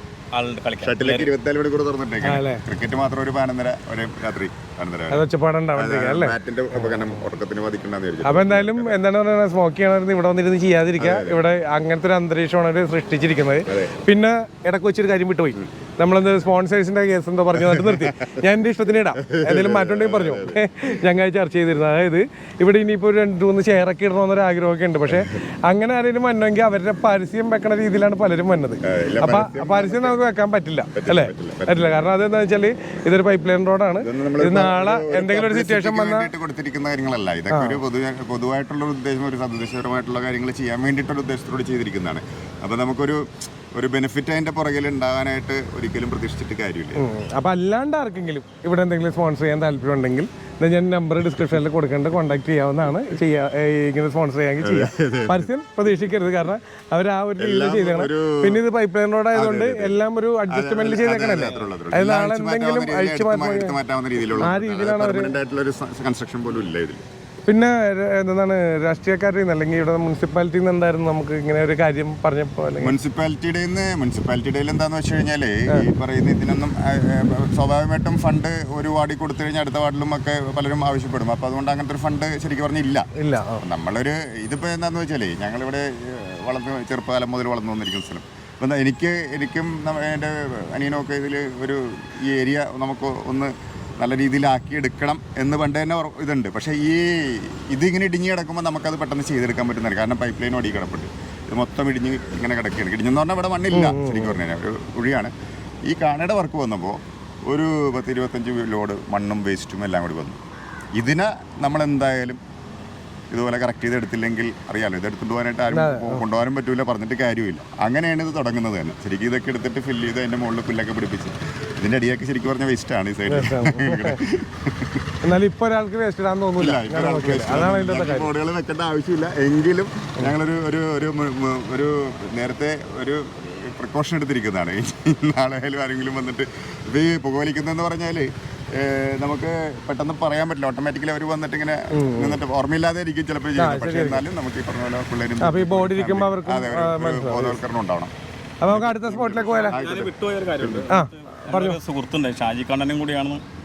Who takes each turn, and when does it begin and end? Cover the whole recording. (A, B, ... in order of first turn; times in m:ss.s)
0:00.3-0:01.3 A
0:00.8-0:09.0 B
0:02.2-0:02.6 C
0:05.1-0:07.1 C
0:08.2-0:36.3 C
0:11.0-0:11.4 B
0:13.7-0:13.9 B
0:17.5-0:18.4 B
0:19.1-0:20.8 B
0:25.1-0:25.3 B
0:28.8-0:30.2 B
0:30.9-0:32.0 B
0:34.0-0:47.0 B
0:37.5-0:37.8 C
0:46.9-1:03.8 C
0:54.6-0:55.5 B
0:57.4-0:58.6 B
0:59.3-1:07.0 B
1:04.4-1:05.3 C
1:07.5-1:13.0 C
1:12.8-1:23.1 B
1:23.1-1:23.6 C
1:23.6-1:45.3 B
1:43.7-1:44.4 C
1:45.9-1:50.4 B
1:51.0-1:52.4 B
1:53.3-2:05.2 B
1:55.7-1:56.2 C
2:03.3-2:04.2 C
2:05.2-2:08.3 C
2:06.6-2:28.1 B
2:21.9-2:22.4 C
2:23.6-2:24.2 C
2:25.4-2:27.6 C
2:28.6-2:29.8 C
2:28.6-2:30.9 B
2:29.5-2:33.4 A
2:30.9-2:31.8 C